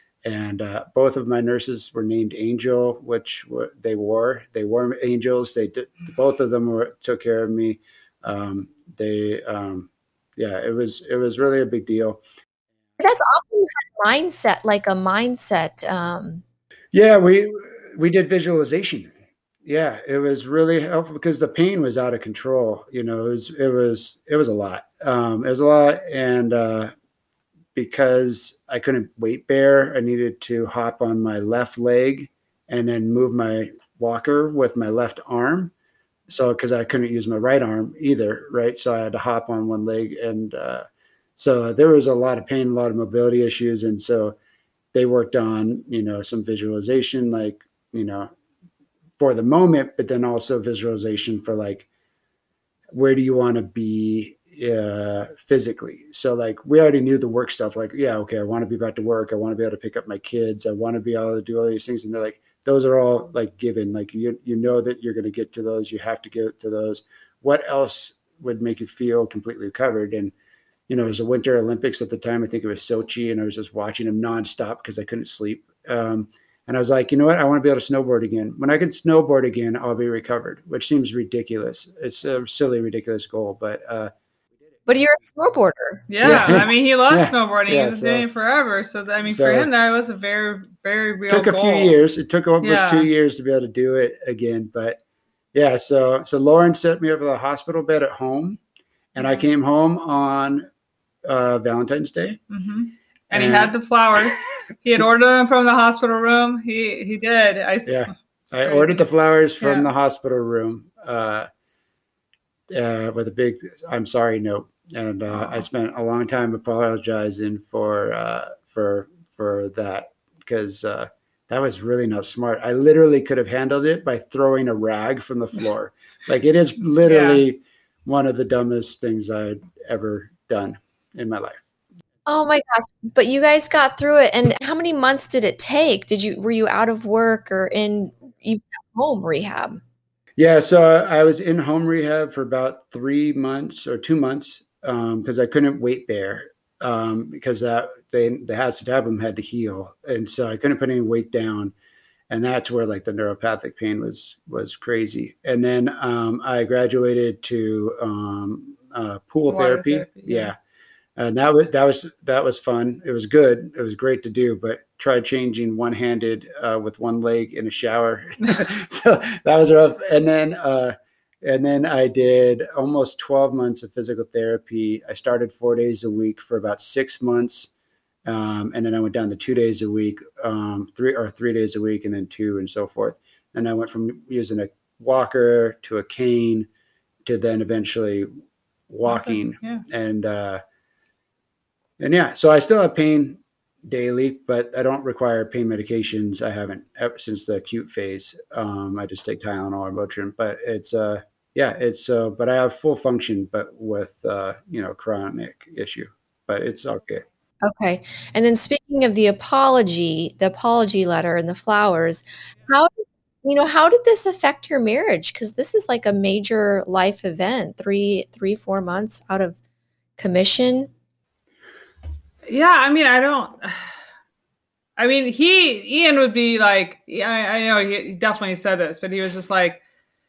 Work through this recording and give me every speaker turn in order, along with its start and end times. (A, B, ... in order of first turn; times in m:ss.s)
0:00.2-0:12.2 A
0:13.0-0:16.4 B
0:16.9-0:19.1 A
0:19.6-0:26.9 A
0:27.8-0:35.7 A
0:36.3-0:40.8 A
0:41.4-0:44.4 A
0:44.9-0:48.3 A
0:49.2-0:51.9 A
0:52.9-1:10.3 A
1:10.9-1:24.1 A
1:24.9-1:26.6 B
1:26.1-1:31.9 C
1:26.2-1:28.3 A
1:29.2-1:29.7 A
1:31.3-1:35.0 A
1:32.6-1:33.1 C
1:35.5-1:38.6 A
1:39.2-1:40.7 A
1:39.2-1:39.4 C
1:41.2-1:42.4 A
1:42.5-1:49.0 C
1:43.3-1:43.8 A
1:47.9-1:51.5 A
1:49.6-1:49.9 C
1:52.7-2:11.6 A
1:55.4-1:55.6 C
2:07.0-2:07.4 C
2:12.3-2:19.8 B
2:20.4-2:31.7 A
2:32.3-2:40.5 A
2:39.5-2:40.5 C
2:41.2-2:57.7 A
2:58.2-3:06.7 A
3:07.2-3:08.3 A
3:08.9-3:10.6 A
3:09.1-3:09.8 C
3:12.0-3:27.2 A
3:27.6-3:39.6 B
3:40.2-3:40.9 B
3:42.5-3:43.9 C
3:45.0-3:49.8 C